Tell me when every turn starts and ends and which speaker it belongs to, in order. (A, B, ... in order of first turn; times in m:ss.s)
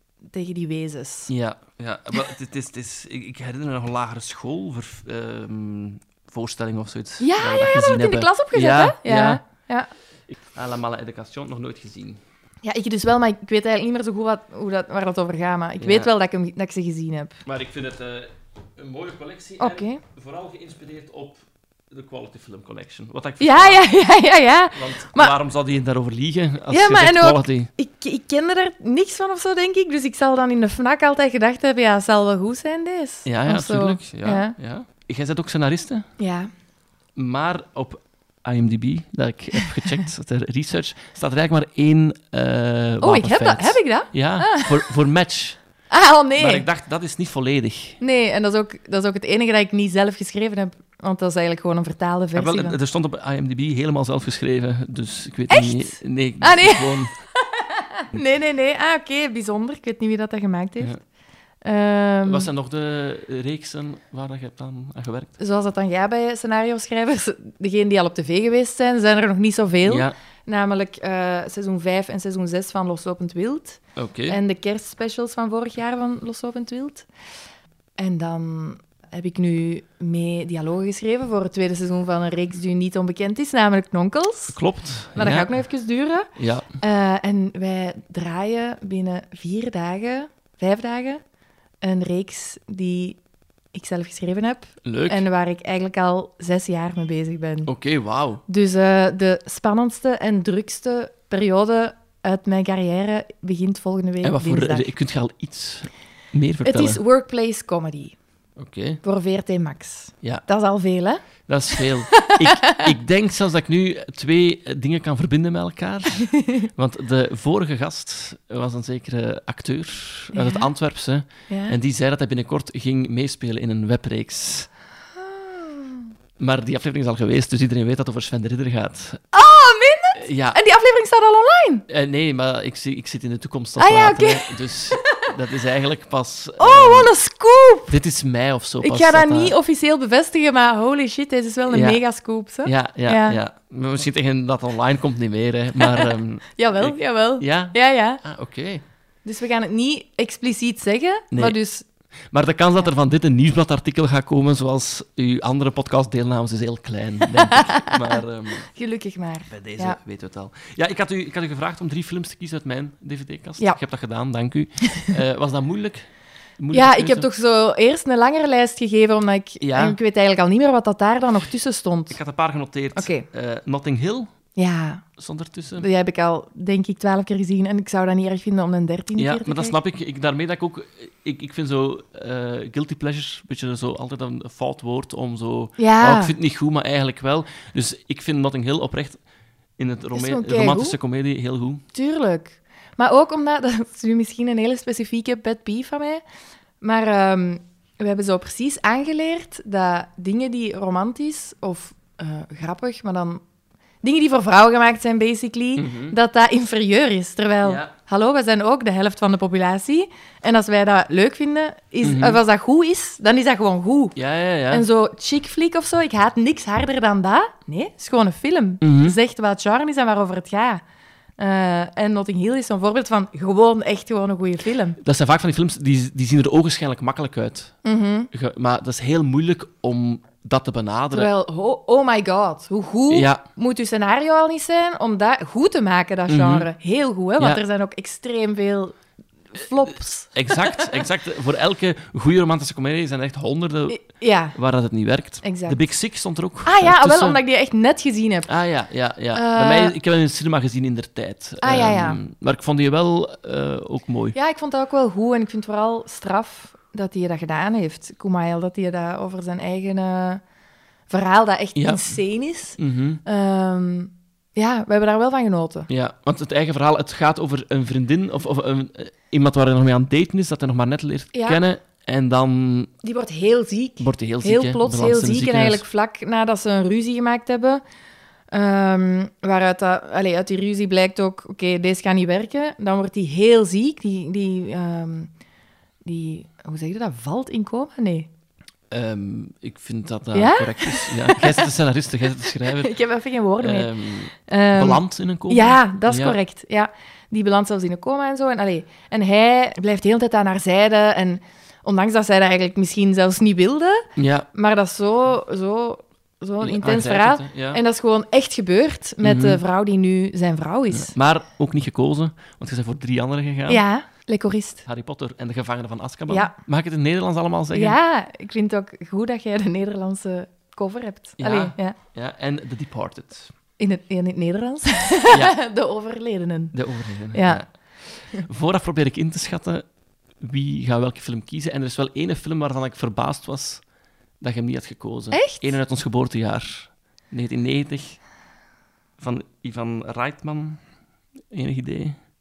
0:00.3-0:01.3 A
0:01.3-0:09.4 B
0:07.2-0:09.9 A
0:10.5-0:12.2 B
0:12.6-0:17.4 A
0:15.8-0:16.1 B
0:17.4-0:23.9 B
0:19.6-0:20.0 A
0:23.4-0:25.4 A
0:24.7-0:27.7 B
0:26.7-0:34.6 A
0:33.2-0:36.1 B
0:36.2-0:36.5 A
0:37.2-0:45.6 B
0:43.0-0:44.9 A
0:45.9-0:46.6 A
0:46.4-0:48.0 B
0:48.0-0:52.8 A
0:52.3-0:57.1 B
0:55.5-1:00.9 A
1:01.6-1:02.5 A
1:02.2-1:05.3 B
1:05.4-1:17.1 A
1:09.8-1:10.1 B
1:14.0-1:14.4 B
1:18.0-1:24.6 A
1:24.5-1:25.5 B
1:25.1-1:31.2 A
1:26.4-1:26.7 B
1:31.8-1:33.2 A
1:33.7-1:37.7 A
1:34.8-1:35.2 B
1:37.6-1:38.4 B
1:38.5-1:44.9 A
1:44.2-1:47.0 B
1:46.6-1:48.2 A
1:48.6-1:49.0 B
1:49.0-1:51.2 A
1:51.4-2:04.7 B
1:52.4-1:52.8 A
1:56.3-1:56.6 A
2:00.3-2:00.7 A
2:01.5-2:01.8 A
2:05.1-2:06.1 A
2:06.4-2:09.2 B
2:09.3-2:11.8 A
2:10.1-2:10.6 B
2:11.9-2:17.1 B
2:13.8-2:15.1 A
2:16.6-2:17.9 A
2:17.9-2:19.5 B
2:18.8-2:23.4 A
2:21.7-2:22.0 B
2:22.6-2:28.8 B
2:25.8-2:28.2 A
2:29.2-2:31.8 A
2:31.3-2:31.6 B
2:32.3-2:38.7 B
2:37.4-2:40.0 A
2:39.5-2:47.3 B
2:46.7-2:52.2 A
2:49.6-2:50.0 B
2:52.1-2:54.3 B
2:52.9-2:53.3 A
2:54.6-2:55.0 A
2:55.2-2:55.8 B
2:55.8-2:59.8 A
2:59.2-3:09.2 B
3:05.8-3:06.3 A
3:09.8-3:11.8 B
3:10.1-3:11.0 A
3:11.9-3:16.2 A
3:16.8-3:23.4 A
3:24.0-3:34.2 A
3:25.8-3:26.2 B
3:27.6-3:27.9 B
3:32.0-3:32.4 B
3:34.2-3:34.8 B
3:34.7-3:40.8 A
3:38.8-3:39.2 B
3:41.4-3:45.0 A
3:45.0-3:47.7 B
3:47.8-3:48.3 A
3:48.3-3:51.3 B
3:51.1-3:59.0 A
3:53.1-3:53.4 B
3:56.3-3:56.7 B
3:59.5-4:01.0 A
3:59.9-4:07.4 B
4:03.9-4:04.6 A
4:05.4-4:05.8 A
4:06.6-4:08.5 A
4:08.5-4:14.4 B
4:09.3-4:10.0 A
4:11.6-4:12.2 A
4:14.3-4:20.4 A
4:21.1-4:25.9 A
4:21.7-4:22.2 B
4:22.8-4:23.2 B
4:25.9-4:32.9 B
4:31.3-4:31.6 A
4:33.0-4:37.8 A
4:34.0-4:35.8 B
4:38.5-4:45.3 A
4:46.0-4:48.3 A
4:48.9-4:52.9 B
4:50.3-4:51.7 A
4:52.6-5:11.1 A
4:53.6-4:56.4 B
5:04.2-5:04.5 B
5:06.6-5:07.8 B
5:09.2-5:09.6 B
5:10.9-5:13.8 B
5:13.7-5:14.8 A
5:14.8-5:18.0 B
5:16.3-5:16.5 A
5:17.7-5:22.0 A
5:21.4-5:23.5 B
5:23.8-5:26.7 A
5:25.3-5:25.6 B
5:26.7-5:29.8 B
5:27.3-5:27.6 A
5:30.4-5:33.8 B
5:34.4-5:38.2 B
5:35.3-5:35.8 A
5:39.2-5:40.8 B
5:41.5-5:42.2 B